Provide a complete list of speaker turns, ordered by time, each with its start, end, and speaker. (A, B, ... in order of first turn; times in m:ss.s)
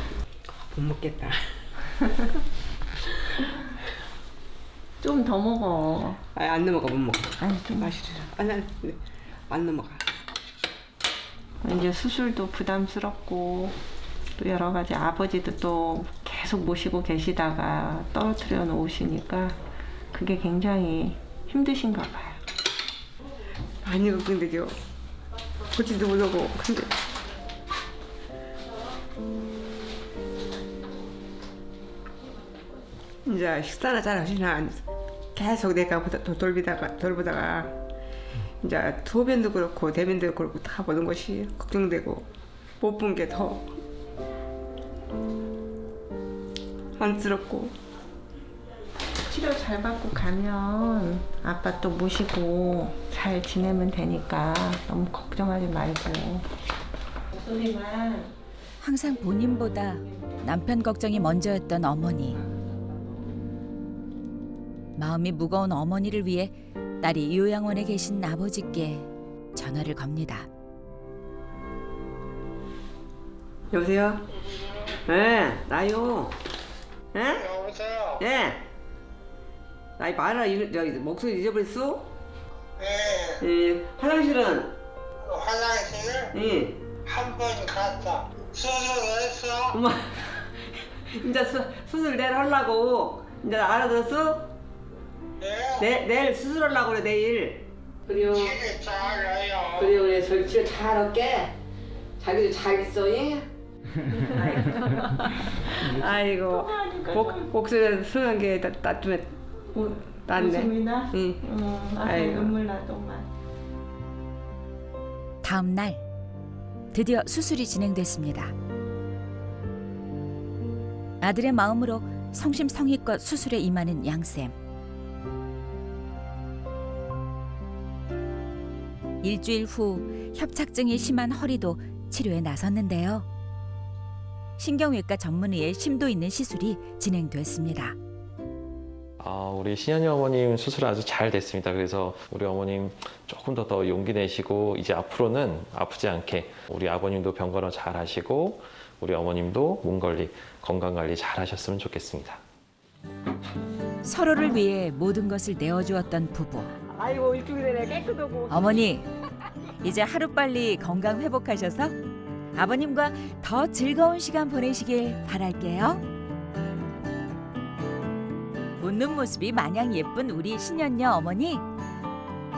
0:00.5-0:01.5 A
0:05.0-0:06.2 B
0:06.3-0:10.0 A
0:07.4-0:07.9 B
0:11.6-0:13.7 B
0:14.4-0:19.6 B
0:20.1-0:22.4 B
0:23.8-0:24.8 A
0:25.7-0:26.9 A
0:33.2-0:37.7 A
0:38.6-0:42.3 A
0:42.8-0:43.7 A
0:47.0-0:47.7 A
0:49.3-0:56.5 B
0:57.3-0:58.3 B
0:58.8-1:02.4 C
1:05.0-1:10.5 C
1:13.7-1:14.2 A
1:15.0-1:16.4 A
1:17.1-1:17.5 A
1:17.3-1:18.2 D
1:18.2-1:18.6 A
1:20.0-1:22.1 A
1:22.8-1:23.4 D
1:23.4-1:24.7 A
1:25.2-1:26.3 D
1:26.3-1:26.8 A
1:27.0-1:29.8 D
1:29.7-1:34.5 A
1:35.4-1:35.8 D
1:35.8-1:38.6 A
1:38.3-1:39.9 D
1:39.7-1:41.5 A
1:42.2-1:43.5 A
1:44.2-1:47.5 B
1:44.2-1:51.4 A
1:49.7-1:53.3 B
1:52.0-1:52.6 A
1:55.4-1:56.0 C
1:56.9-1:58.5 C
2:01.2-2:04.5 C
2:09.2-2:13.2 C
2:14.6-2:18.0 C
2:19.2-2:32.4 E
2:34.0-2:36.7 C
2:36.9-2:38.8 A
2:38.5-2:39.1 C
2:39.8-2:41.9 C
2:42.5-2:46.0 C
2:48.8-2:51.6 C